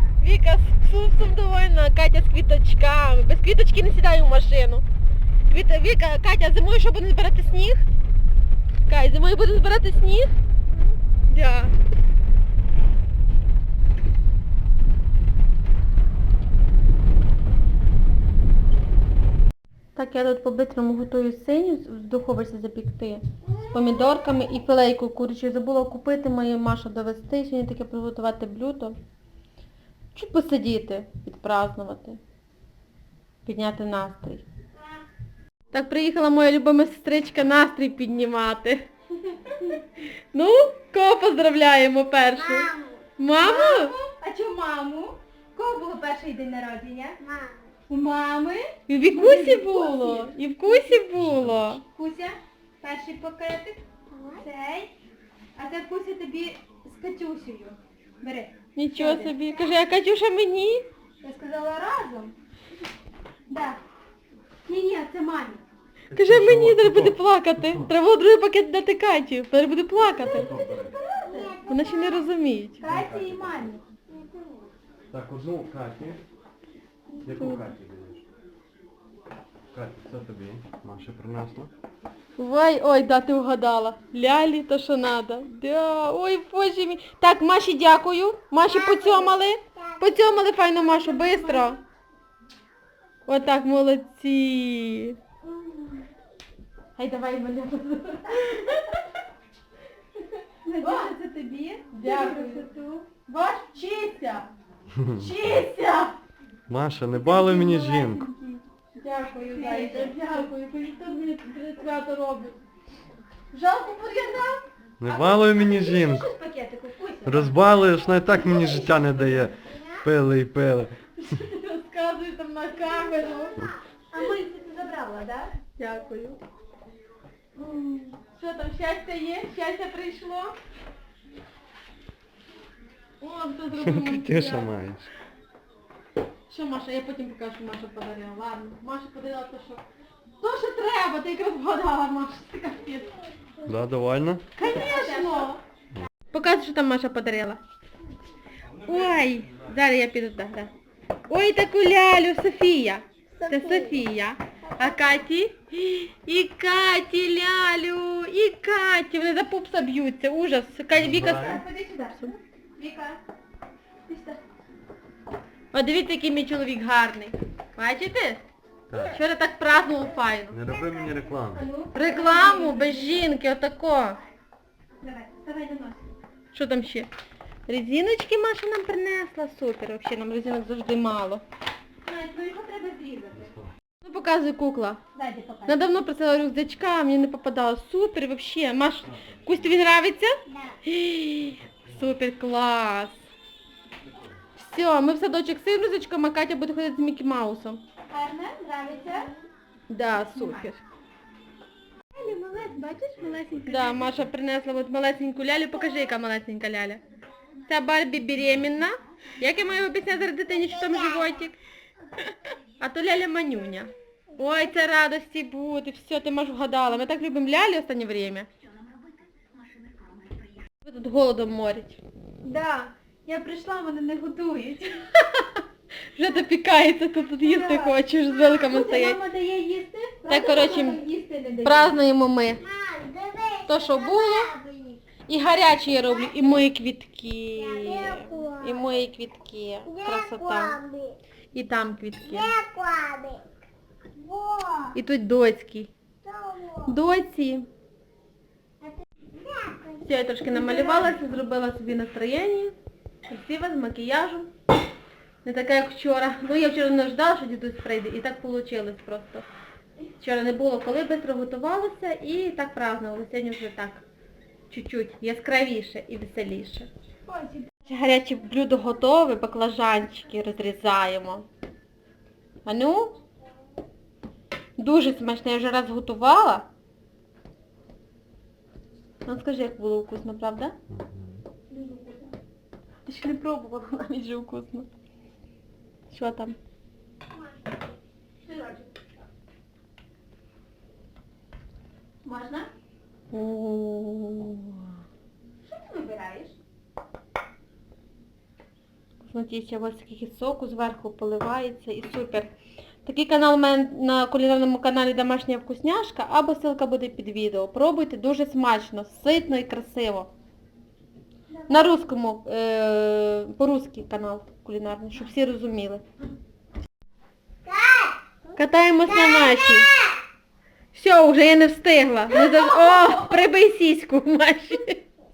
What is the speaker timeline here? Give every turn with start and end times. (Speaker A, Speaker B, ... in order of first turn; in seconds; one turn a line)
Speaker A: 0.2-4.8
Speaker A: 5.5-7.8
Speaker A: 8.9-10.3
Speaker A: 11.3-11.7
Speaker A: 19.9-29.0
Speaker A: 30.1-32.2
Speaker A: 33.4-34.4
Speaker A: 35.7-38.9
Speaker A: 40.3-43.9
Speaker B: 42.4-43.1
Speaker C: 43.4-47.2
Speaker B: 47.2-47.8
Speaker C: 47.9-51.0
Speaker A: 48.9-51.8
Speaker D: 51.1-51.7
Speaker C: 51.8-53.8
Speaker B: 54.1-54.5
Speaker C: 54.4-54.9
Speaker C: 55.5-59.6
Speaker A: 58.7-60.8
Speaker C: 61.2-62.3
Speaker C: 63.5-63.8
Speaker C: 64.6-65.6
Speaker D: 66.1-67.9
Speaker A: 66.1-70.5
Speaker D: 70.2-71.0
Speaker B: 70.7-72.2
Speaker C: 71.3-71.6
Speaker A: 71.7-72.8
Speaker C: 72.8-73.8
Speaker D: 72.8-73.7
Speaker B: 74.1-74.7
Speaker D: 75.1-76.2
Speaker D: 77.2-78.2
Speaker A: 77.3-77.7
Speaker D: 79.7-81.7
Speaker A: 82.4-91.8
Speaker B: 88.8-89.9
Speaker C: 91.0-91.8
Speaker A: 93.3-95.2
Speaker A: 97.0-99.0
Speaker C: 100.6-103.1
Speaker A: 100.8-101.1
Speaker A: 101.9-102.7
Speaker A: 103.2-104.5
Speaker D: 104.9-105.3
Speaker C: 105.2-106.1
Speaker A: 105.3-106.0
Speaker D: 106.7-108.2
Speaker C: 107.2-108.6
Speaker A: 109.0-112.6
Speaker C: 109.4-110.2
Speaker A: 113.5-114.6
Speaker C: 114.0-114.4
Speaker D: 115.0-116.3
Speaker C: 115.0-117.5
Speaker D: 117.2-121.0
Speaker A: 121.2-123.7
Speaker C: 124.1-125.6
Speaker A: 125.7-126.4
Speaker A: 127.5-130.6
Speaker A: 133.2-134.7
Speaker D: 133.8-135.1
Speaker A: 136.5-139.8
Speaker A: 140.4-143.1
Speaker D: 143.6-144.5
Speaker A: 144.6-145.6
Speaker C: 144.6-145.6
Speaker A: 146.3-147.6
Speaker A: 148.8-150.7
Speaker A: 151.3-162.3
Speaker C: 153.4-154.0
Speaker C: 154.7-155.2
Speaker D: 160.9-161.6
Speaker C: 161.3-163.2
Speaker C: 164.1-164.4
Speaker A: 165.7-168.4
Speaker D: 168.9-169.2
Speaker A: 169.1-170.6
Speaker D: 170.5-171.6
Speaker C: 170.9-173.3
Speaker A: 171.9-174.2
Speaker C: 175.0-176.1
Speaker A: 176.5-177.1
Speaker A: 177.7-181.4
Speaker C: 182.1-183.6
Speaker A: 184.0-185.0
Speaker C: 185.1-185.9
Speaker A: 185.7-193.2
Speaker A: 194.6-197.8
Speaker C: 198.1-199.3
Speaker A: 199.9-200.8
Speaker C: 200.3-200.6
Speaker C: 202.1-204.0
Speaker A: 203.6-207.0
Speaker A: 207.7-211.6
Speaker A: 212.2-218.5
Speaker A: 220.8-222.0
Speaker C: 222.4-225.0
Speaker A: 226.1-229.2
Speaker C: 227.4-231.9
Speaker A: 230.3-231.0
Speaker A: 231.6-232.6
Speaker B: 232.6-235.0
Speaker A: 233.7-234.5
Speaker A: 235.3-240.8
Speaker B: 237.6-238.9
Speaker B: 239.9-241.2
Speaker A: 241.5-242.5
Speaker B: 242.3-243.6
Speaker B: 244.2-244.9
Speaker A: 244.9-245.9
Speaker B: 246.2-246.9
Speaker A: 246.8-247.7
Speaker B: 248.8-250.7
Speaker A: 250.0-252.7
Speaker A: 253.3-254.5
Speaker A: 255.4-259.5
Speaker A: 260.2-264.1
Speaker A: 264.7-266.9
Speaker C: 267.2-267.7
Speaker A: 267.9-271.5
Speaker A: 272.6-273.2
Speaker A: 274.8-276.7
Speaker A: 279.2-280.7
Speaker D: 280.9-281.4
Speaker C: 281.7-282.3
Speaker A: 283.1-284.9
Speaker A: 286.1-286.6
Speaker C: 288.4-289.0
Speaker C: 292.2-292.7
Speaker A: 293.3-294.9
Speaker C: 295.7-296.6
Speaker A: 299.2-302.5
Speaker A: 303.0-310.3
Speaker A: 311.7-316.0
Speaker B: 317.6-318.2
Speaker A: 318.6-320.0
Speaker B: 319.2-319.9
Speaker A: 320.9-325.0
Speaker B: 322.7-323.1